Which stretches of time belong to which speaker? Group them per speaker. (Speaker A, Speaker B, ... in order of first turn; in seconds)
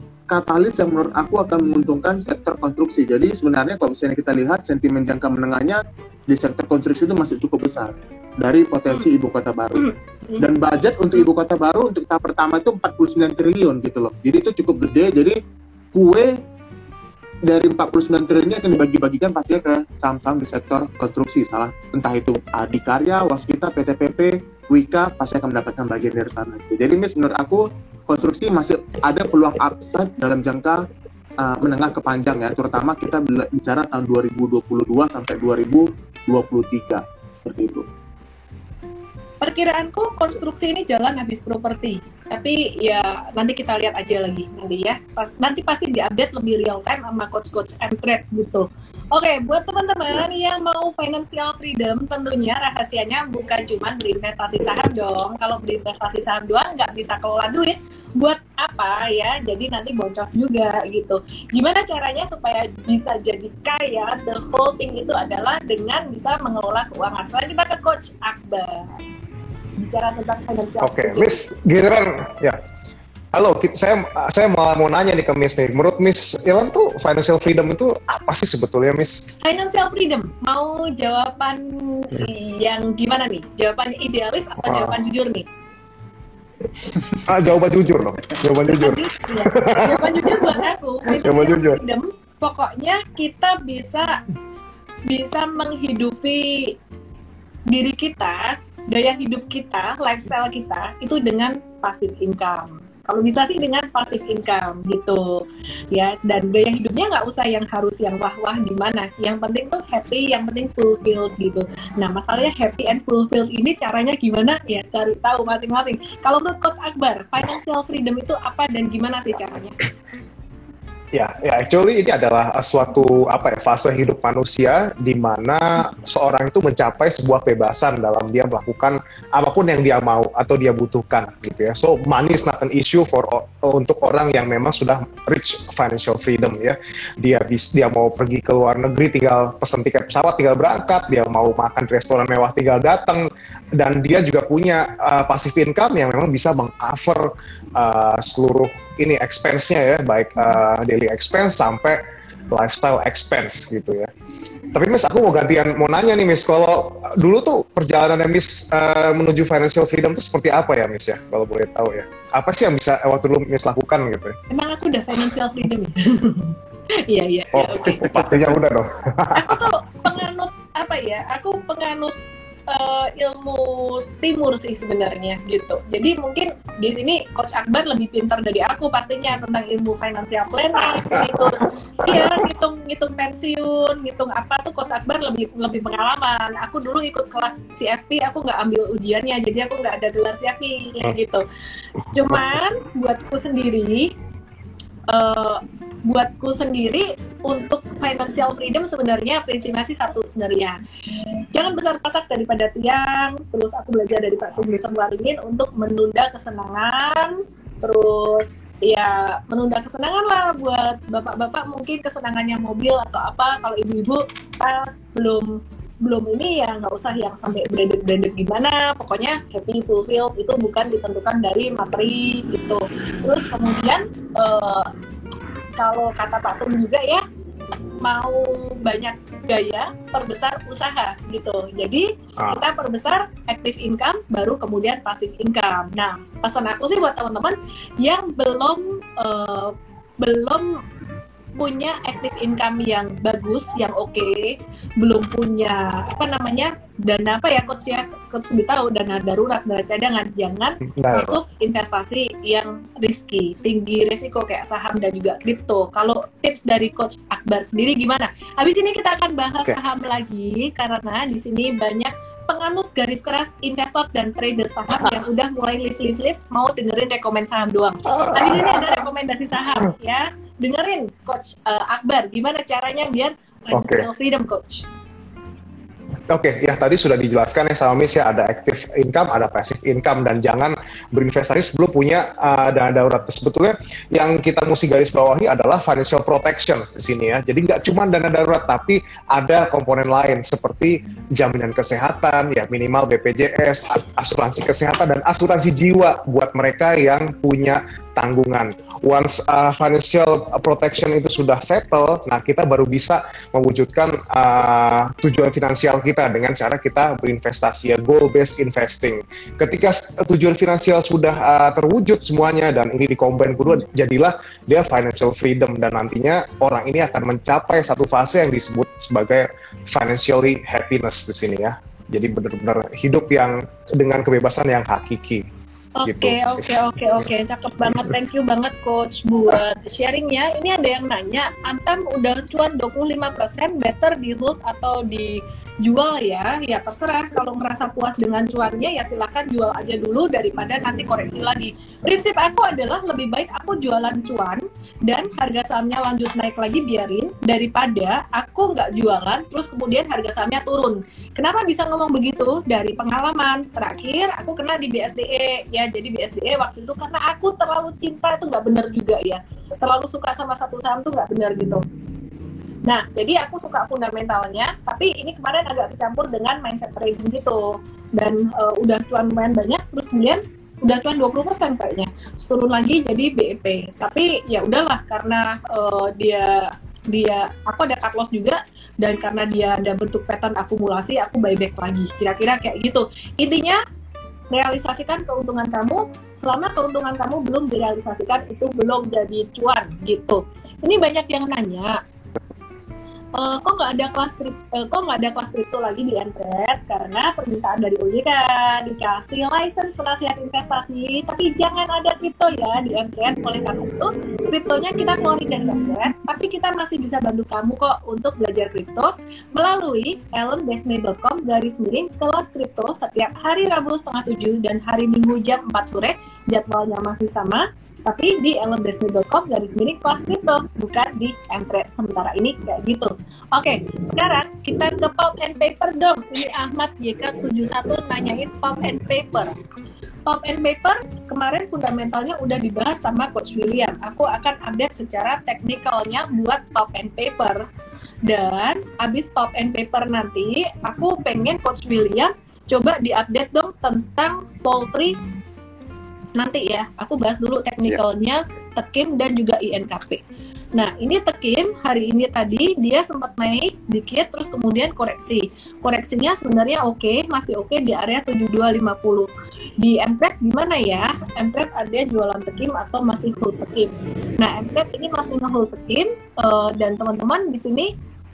Speaker A: 0.3-15.4, 15.9-16.4, 17.4-30.9, 31.4-37.9, 167.9-168.6
Speaker B: 9.8-10.4, 39.4-69.0, 69.8-71.4, 79.4-85.5, 88.7-94.2, 95.1-96.8, 97.7-119.8, 164.5-168.0, 169.3-172.2, 172.7-191.4, 192.1-194.1, 195.1-200.8, 201.5-215.5, 216.0-224.9, 225.8-227.2, 228.0-240.8, 241.5-274.8, 325.9-361.8, 362.9-383.8, 384.5-392.0, 393.3-429.5, 430.3-437.6, 438.2-445.1, 446.3-450.2, 450.7-467.9
Speaker C: 70.8-72.6, 73.3-79.2, 84.6-84.9, 87.2-91.8, 121.1-154.1, 154.7-164.4, 167.5-169.6, 180.9-182.4, 251.0-251.4, 268.1-269.0, 273.7-274.1, 276.3-325.4, 326.0-326.8